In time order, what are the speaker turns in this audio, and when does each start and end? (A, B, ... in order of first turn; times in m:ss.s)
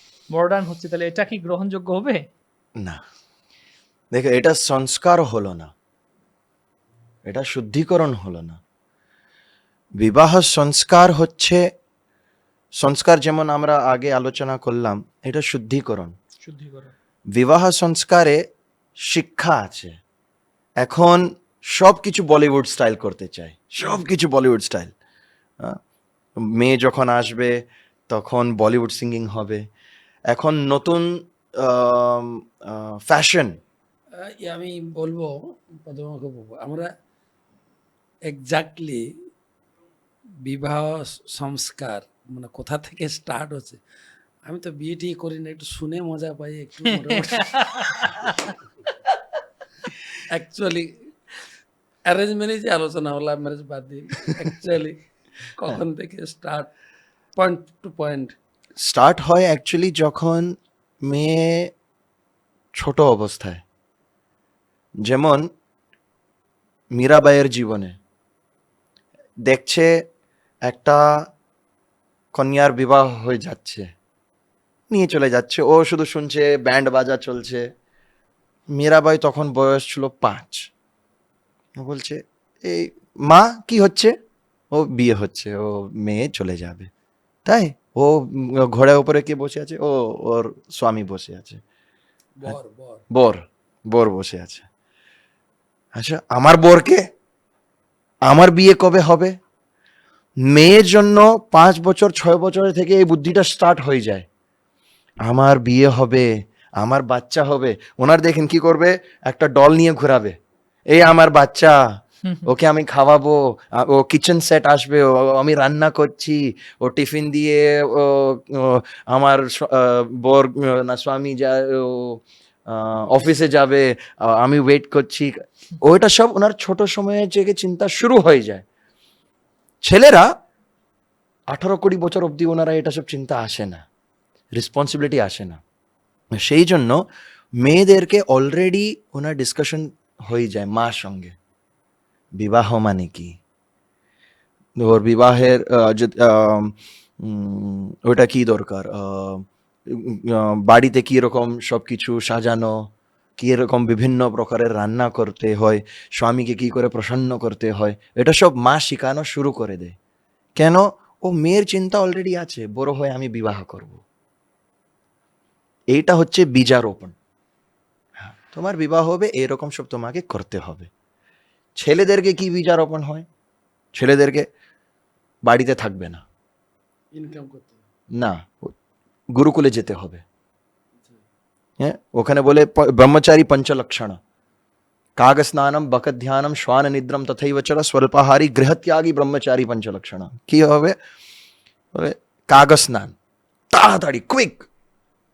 0:00.3-0:02.2 A
0:04.1-0:05.7 B
0:07.2-0:08.6 B
0:10.0-0:11.6 B
0:12.8-0:16.1 B
0:16.4-0:16.9 A
0:17.3-0:18.4 B
0:19.0-0:20.0 B
0:20.8-0:24.9 B
0:26.4-0:27.6 B
0:28.1-0:29.6 B
0:30.3-0:33.6 B
0:34.2-0:36.9 C
0:38.3-0:39.0 C
0:40.4-0:43.8 C
0:44.4-0:48.0 C
0:47.2-0:48.5 A
0:50.3-0:50.9 C
0:52.0-0:55.0 C
0:55.5-0:56.7 C
0:57.4-0:58.3 C
0:58.8-1:01.7 B
1:02.7-1:03.6 B
1:05.0-1:05.5 B
1:06.9-1:07.9 B
1:09.4-1:09.9 B
1:10.6-1:11.2 B
1:12.3-1:13.8 B
1:14.9-1:17.7 B
1:18.7-1:20.7 B
1:21.8-1:24.1 B
1:24.7-1:26.9 B
1:27.4-1:31.6 B
1:32.4-1:33.0 C
1:33.1-1:34.7 B
1:35.9-1:37.0 B
1:38.2-1:39.3 B
1:40.4-1:44.2 B
1:45.2-1:50.4 B
1:50.9-2:08.6 B
2:09.8-2:10.3 B
2:11.5-2:13.8 B
2:14.6-2:15.6 B
2:16.3-2:17.0 B
2:17.6-2:21.3 B
2:22.4-2:23.4 B
2:24.8-2:39.9 B
2:40.6-2:44.0 B
2:45.9-2:47.1 B
2:48.2-2:50.9 B
2:51.8-2:53.2 B
2:53.9-2:54.4 B
2:55.4-2:56.2 B
2:57.1-2:57.8 C
2:58.1-2:58.7 B
2:59.3-3:00.2 B
3:01.8-3:04.2 B
3:05.2-3:11.0 B
3:11.9-3:13.1 B
3:13.7-3:14.7 B